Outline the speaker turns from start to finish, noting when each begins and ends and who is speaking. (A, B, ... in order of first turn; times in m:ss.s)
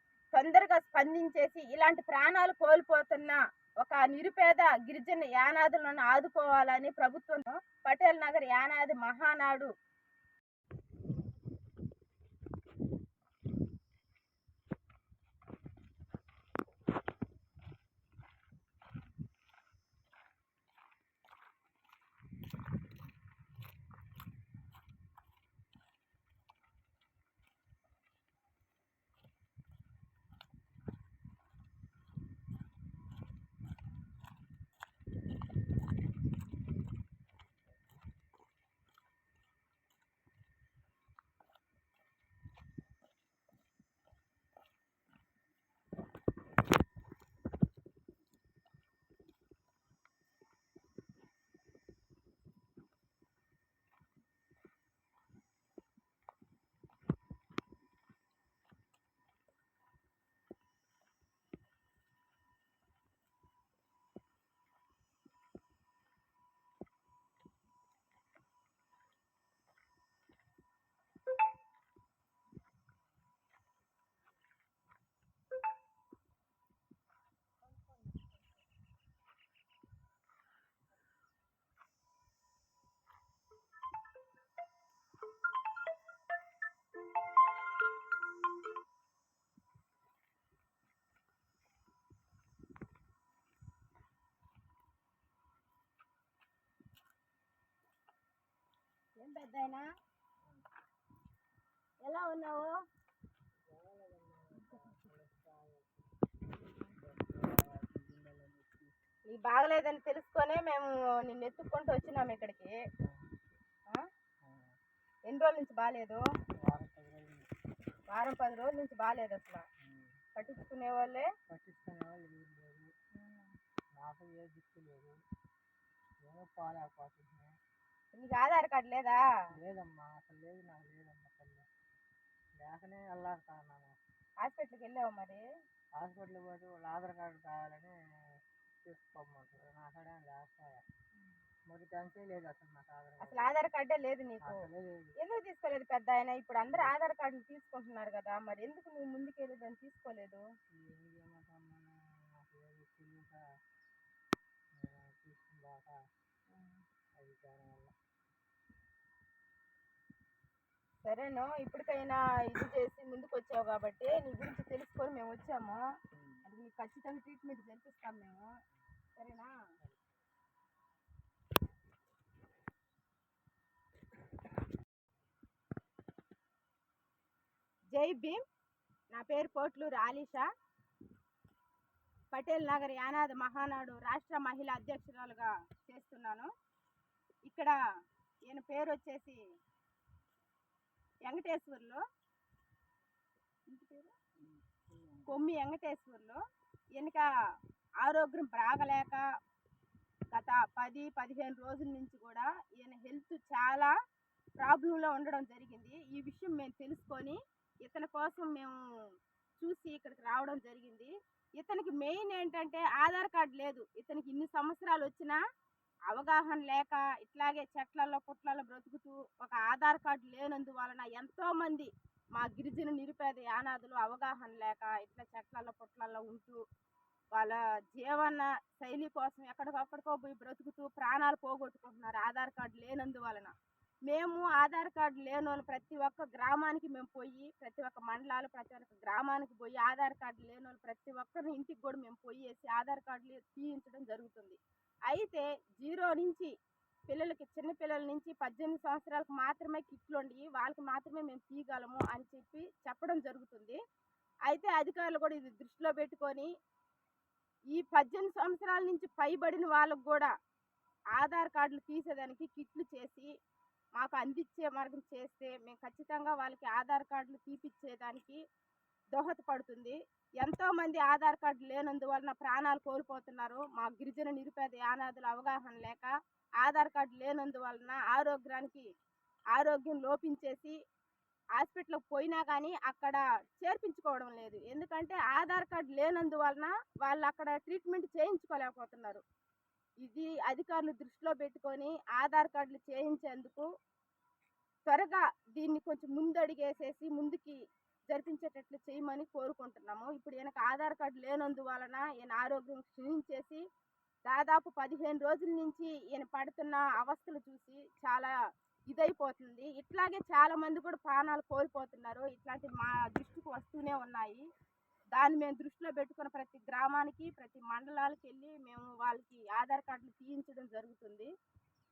0:00.3-0:09.7 A
1:39.2-1:39.9 A
1:42.0-1:42.7 A
1:43.7-1:46.0 B
1:46.8-1:48.9 B
1:49.3-1:52.8 A
1:53.0-1:53.4 B
1:54.4-1:54.7 B
1:55.3-1:56.2 A
1:56.6-1:57.5 B
1:58.1-1:59.6 A
1:59.8-2:00.2 B
2:00.3-2:01.3 A
2:01.5-2:02.9 B
2:03.1-2:03.5 A
2:03.9-2:05.2 B
2:06.2-2:07.6 B
2:08.1-2:09.2 A
2:09.5-2:11.7 B
2:12.6-2:14.0 B
2:14.4-2:15.4 A
2:15.9-2:20.8 B
2:21.7-2:23.5 B
2:23.2-2:24.7 A
2:24.4-2:25.2 B
2:25.2-2:30.5 A
2:26.7-2:26.9 B
2:30.7-2:33.4 B
2:34.8-2:36.0 B
2:36.5-2:36.8 A
2:37.2-2:37.9 B
2:41.0-2:45.9 A
2:46.1-2:46.4 B
2:46.4-2:48.6 A
2:49.2-2:49.6 A
2:49.8-2:50.2 B
2:57.9-2:58.4 A
2:59.1-3:00.5 A
3:02.3-3:06.5 A
3:07.4-3:07.7 A
3:08.5-3:09.4 A
3:11.2-3:12.0 A
3:13.7-3:14.2 A
3:14.4-3:15.3 B
3:15.3-3:16.4 A
3:16.9-3:17.3 A
3:18.0-3:19.2 A
3:20.3-3:23.9 A
3:24.6-3:28.8 A
3:29.6-3:35.4 A
3:36.1-3:46.6 A
3:47.3-3:53.5 A
3:54.1-4:06.5 A
4:07.1-4:13.8 A
4:14.5-4:16.5 A
4:17.7-4:20.3 A
4:21.1-4:23.3 A
4:24.0-4:28.4 A
4:29.1-4:38.8 A
4:39.5-4:40.8 A
4:41.6-4:49.2 A
4:50.0-4:53.7 A
4:54.9-5:03.6 A
5:04.2-5:08.3 A
5:08.9-5:14.4 A
5:15.1-5:21.3 A